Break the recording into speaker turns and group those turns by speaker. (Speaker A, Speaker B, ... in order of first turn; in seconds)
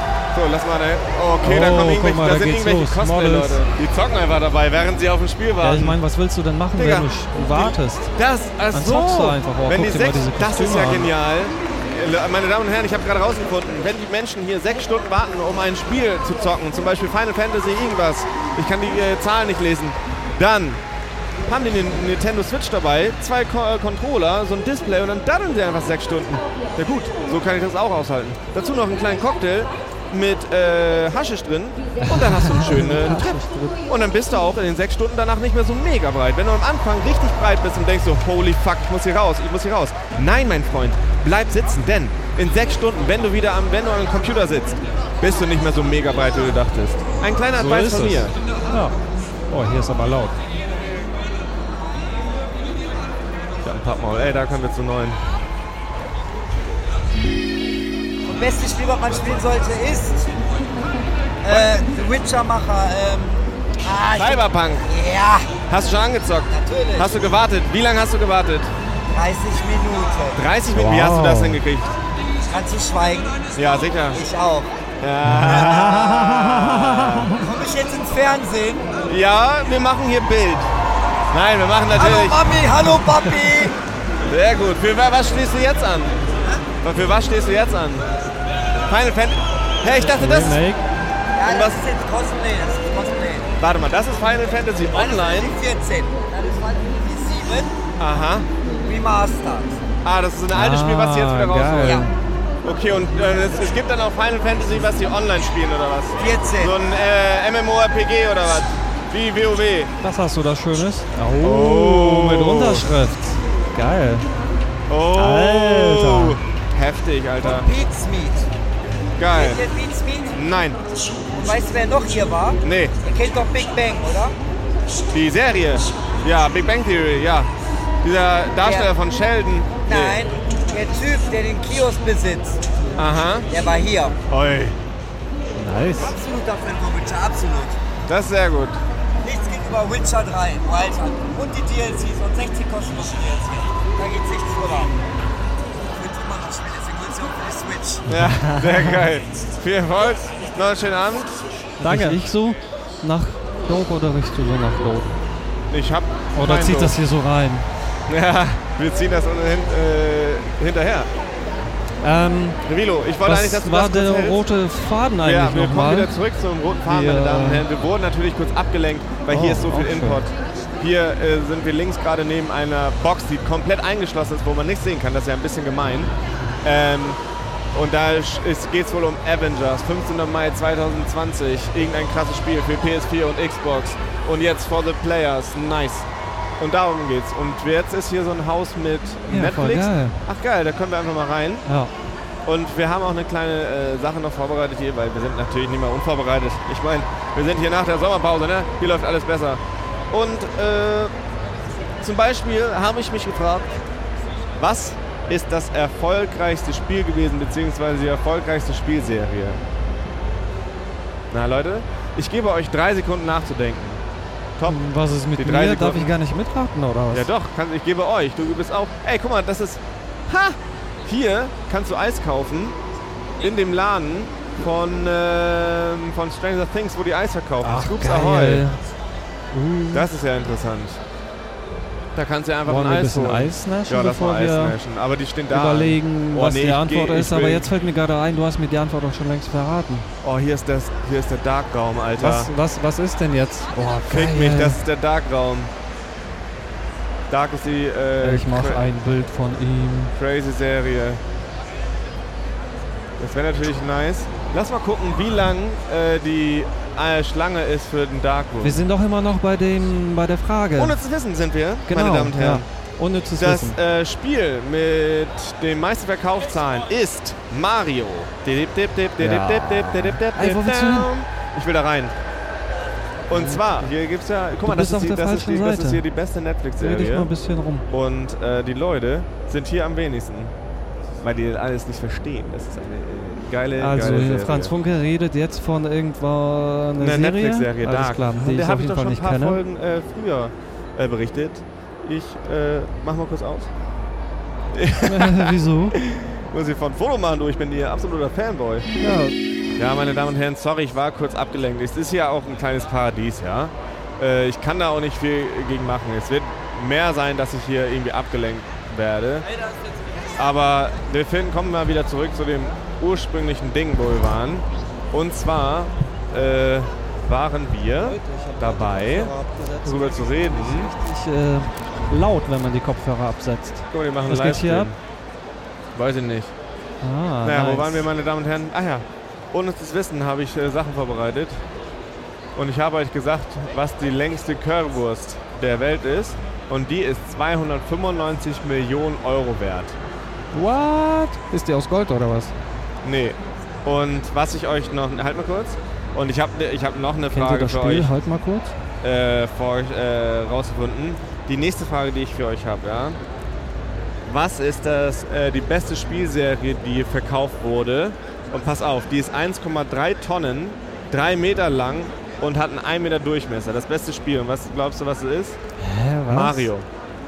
Speaker A: 0.3-6.0, 6.7-20.8, 21.4-48.4, 53.6-55.2, 61.5-61.8, 64.1-64.9, 65.6-68.7, 70.3-72.0, 73.5-74.2, 75.0-77.3, 79.1-80.7, 81.3-82.6, 84.3-86.2, 86.8-88.0, 88.9-90.6, 91.5-91.8, 93.6-95.5, 98.0-98.5, 100.0-102.0, 102.6-109.9, 111.4-112.9, 114.9-117.7, 119.2-119.6, 120.3-120.8, 122.6-122.9, 125.1-127.5, 128.0-130.2, 132.9-133.5, 134.3-134.8, 138.1-138.8, 148.1-152.2, 155.7-157.0, 158.1-161.1, 162.6-164.4, 165.2-176.1, 176.6-177.2, 177.7-186.1, 186.6-191.7, 192.4-201.1, 202.0-203.8, 204.6-209.6, 211.3-214.0, 214.6-214.8, 215.4-216.1, 217.1-222.8, 223.4-228.6, 229.9-231.0, 232.1-237.7, 240.2-242.5, 244.1-245.7, 247.3-248.8, 250.1-251.2, 253.2-258.8, 260.8-262.6, 263.4-272.1, 273.3-277.3, 277.9-280.5, 281.2-284.7, 287.0-293.7, 294.7-299.0, 299.8-309.5, 310.4-320.9, 323.9-325.0, 325.9-326.5, 327.4-331.6, 332.6-340.0, 343.0-348.1, 349.0-353.2, 354.2-365.6, 366.3-366.9
Speaker B: 1.4-3.6, 5.6-8.1, 8.7-11.1, 32.0-33.8, 47.5-49.0, 49.5-50.4, 70.7-71.6, 75.2-77.4, 89.9-90.8, 100.5-102.1, 110.0-114.3, 115.1-116.4, 135.6-136.2, 148.1-149.0, 151.8-155.2, 156.3-157.7, 162.0-162.6, 163.2-166.1, 166.8-167.6, 169.3-170.2, 189.3-190.2, 191.7-191.9, 214.6-217.3, 227.6-228.8, 229.5-230.1, 232.7-234.8, 235.5-240.1, 242.2-244.8, 248.2-250.1, 258.6-261.0, 261.9-263.8, 269.2-271.1, 273.3-273.6, 274.6-276.0, 276.8-277.9, 283.8-289.6, 295.0-296.0, 299.0-299.4, 318.0-324.9, 327.0-328.1, 340.5-342.6, 347.3-348.8, 365.8-366.7
Speaker C: 58.3-60.3, 61.4-65.6, 66.5-67.3, 69.1-70.4, 72.5-73.5, 74.1-74.7, 75.5-75.9, 77.4-78.9, 81.9-83.8, 91.3-93.5, 94.9-97.8, 98.8-99.8, 106.2-106.8, 117.4-118.5, 119.3-120.3, 121.3-124.3, 128.6-128.9, 129.8-132.6, 133.5-134.2, 135.9-137.8, 139.2-144.9, 145.8-148.1